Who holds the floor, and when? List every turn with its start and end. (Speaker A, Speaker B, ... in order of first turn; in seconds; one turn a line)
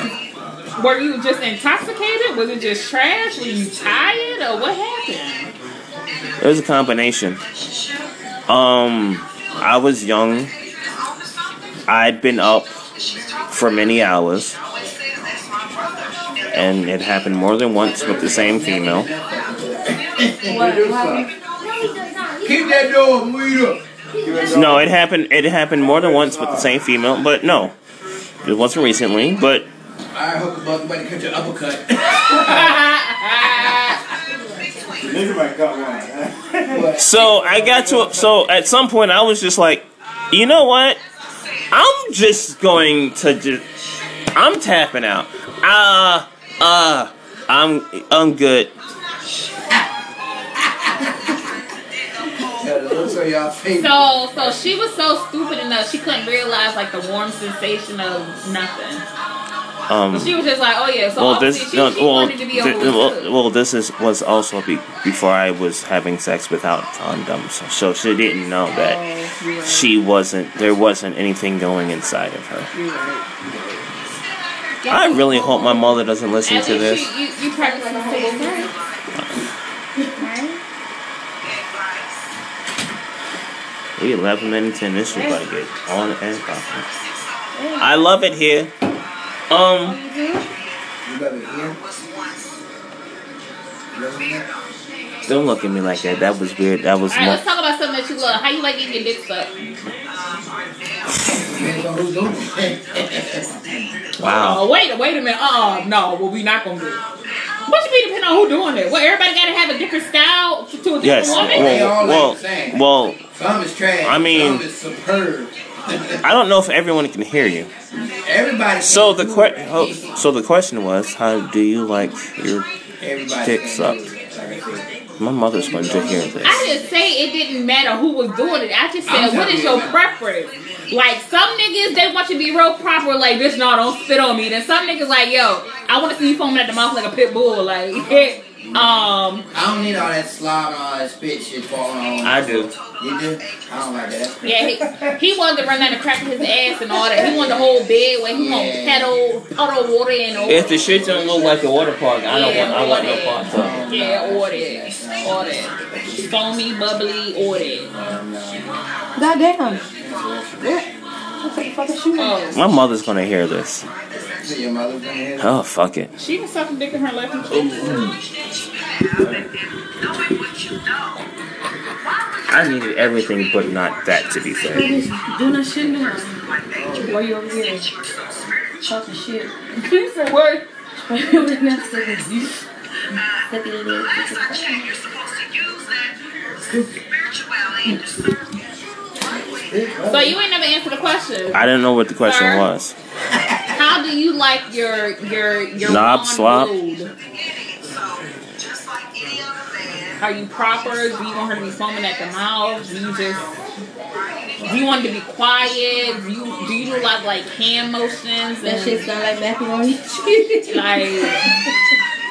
Speaker A: 0.8-5.5
Speaker B: 6.4-7.4
Speaker B: 8.5-10.5
Speaker B: 11.9-12.8
Speaker B: 13.5-14.6
Speaker B: 16.5-19.1
Speaker C: 17.8-20.6
Speaker D: 20.4-22.9
Speaker E: 20.5-21.3
Speaker C: 22.4-23.8
Speaker D: 24.1-24.7
Speaker E: 24.2-24.9
Speaker B: 24.5-27.7
Speaker E: 25.8-26.7
Speaker B: 28.4-29.7
Speaker C: 30.1-32.8
Speaker A: 32.2-34.0
Speaker E: 35.0-38.2
Speaker C: 36.7-37.0
Speaker B: 37.0-41.0
Speaker B: 41.7-43.6
Speaker B: 44.3-48.7
Speaker C: 52.5-54.1
Speaker A: 53.8-59.0
Speaker B: 59.9-60.4
Speaker A: 60.1-63.3
Speaker B: 61.2-69.0
Speaker A: 68.7-69.9
Speaker B: 69.6-72.7
Speaker A: 72.7-73.3
Speaker B: 74.9-77.1
Speaker D: 74.9-76.0
Speaker A: 75.3-75.7
Speaker A: 76.4-78.7
Speaker D: 77.5-78.7
Speaker D: 80.0-80.2
Speaker A: 80.2-80.6
Speaker B: 84.0-86.8
Speaker D: 87.5-87.8
Speaker B: 87.8-88.7
Speaker B: 89.5-90.0
Speaker D: 89.8-90.4
Speaker C: 91.0-91.8
Speaker C: 93.9-94.5
Speaker B: 95.3-97.4
Speaker A: 97.1-99.5
Speaker C: 101.4-103.5
Speaker B: 104.2-104.6
Speaker A: 104.2-107.0
Speaker A: 107.7-111.8
Speaker B: 111.0-113.2
Speaker C: 111.3-112.8
Speaker C: 113.3-116.2
Speaker B: 114.0-114.6
Speaker B: 116.2-117.7
Speaker C: 118.1-120.2
Speaker B: 118.8-122.7
Speaker C: 123.0-124.9
Speaker B: 123.4-124.0
Speaker B: 125.2-126.6
Speaker C: 125.5-126.8
Speaker A: 126.4-139.4
Speaker C: 129.1-130.0
Speaker C: 138.5-139.0
Speaker C: 139.5-145.1
Speaker B: 142.2-142.7
Speaker A: 144.4-151.1
Speaker C: 146.9-149.1
Speaker B: 150.4-153.9
Speaker C: 150.9-151.6
Speaker A: 152.3-157.9
Speaker C: 152.3-155.4
Speaker C: 157.9-158.7
Speaker D: 159.2-159.8
Speaker C: 159.9-160.8
Speaker D: 160.6-160.9
Speaker D: 161.4-162.4
Speaker A: 162.2-162.6
Speaker B: 162.5-163.8
Speaker C: 164.4-165.5
Speaker B: 165.4-166.1
Speaker A: 166.2-168.1
Speaker B: 172.5-174.9
Speaker D: 174.7-176.4
Speaker C: 176.7-177.1
Speaker D: 176.9-177.8
Speaker D: 178.8-179.5
Speaker A: 179.8-180.7
Speaker D: 181.1-182.6
Speaker D: 183.5-184.9
Speaker C: 189.7-190.3
Speaker A: 190.1-191.6
Speaker B: 191.5-192.9
Speaker A: 192.2-192.7
Speaker A: 193.7-197.1
Speaker B: 195.8-196.7
Speaker A: 200.2-203.4
Speaker A: 204.6-209.1
Speaker D: 208.6-211.7
Speaker A: 210.7-211.5